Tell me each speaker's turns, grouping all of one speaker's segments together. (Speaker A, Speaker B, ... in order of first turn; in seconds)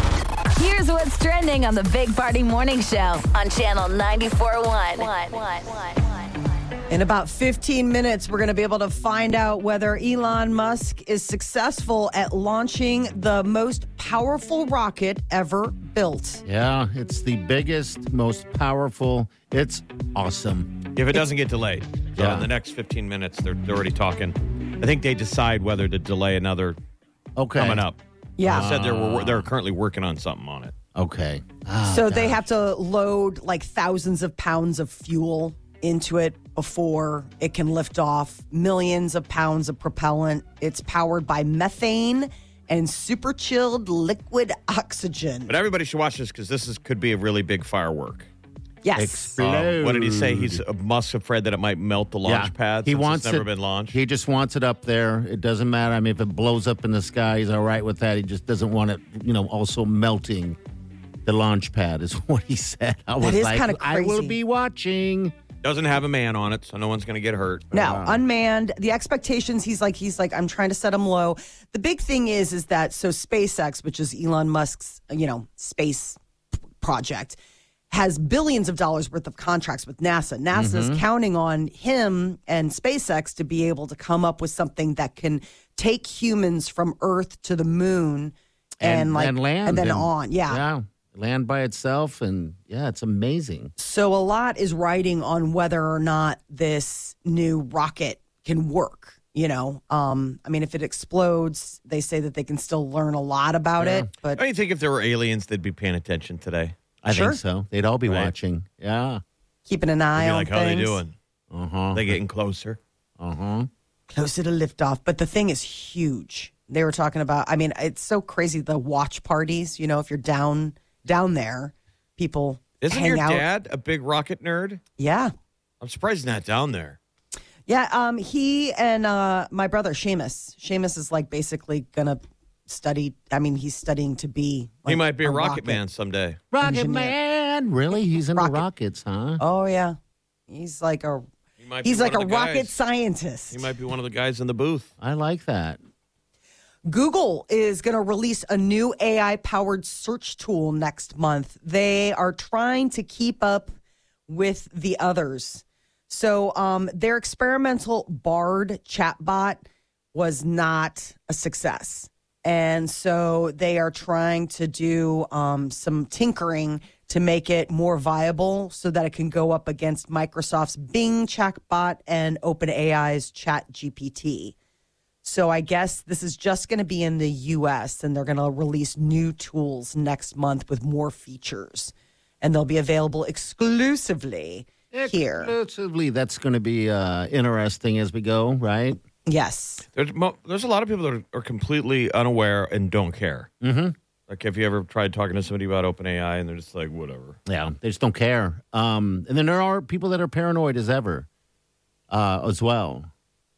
Speaker A: 0.6-6.3
Speaker B: 6.9-16.4, 28.4-28.7, 31.9-45.5, 48.8-49.4, 63.2-64.4, 67.7-76.2, 76.8-77.4, 77.9-90.6, 93.8-104.4, 107.1-107.4, 109.7-111.0, 114.1-123.5, 125.0-125.3, 127.7-135.8, 136.6-137.2, 138.3-138.7, 139.4-140.0, 140.5-141.3, 141.8-143.7, 146.9-153.7, 154.3-159.6, 160.1-174.6, 175.2-185.5, 189.3-189.8
Speaker C: 16.4-20.8, 22.2-22.5, 27.4-27.9, 28.4-29.5, 30.9-32.5, 49.0-50.6, 52.2-60.6, 61.2-65.3, 67.7-68.2, 80.5-81.0, 88.8-93.7, 103.8-104.1, 107.0-109.2, 111.5-112.2, 113.2-113.7, 136.5-139.4, 145.0-145.8, 184.9-189.0, 193.6-193.9, 197.5-201.3, 202.1-203.1
Speaker D: 20.9-26.8, 27.6-30.8, 45.5-48.3, 49.4-54.0, 65.6-67.7, 104.3-106.8, 108.1-108.3, 110.2-111.2, 111.9-112.8, 122.8-124.8, 125.8-127.0, 134.9-136.4, 141.6-142.8, 143.5-144.9, 189.9-193.5, 194.3-197.4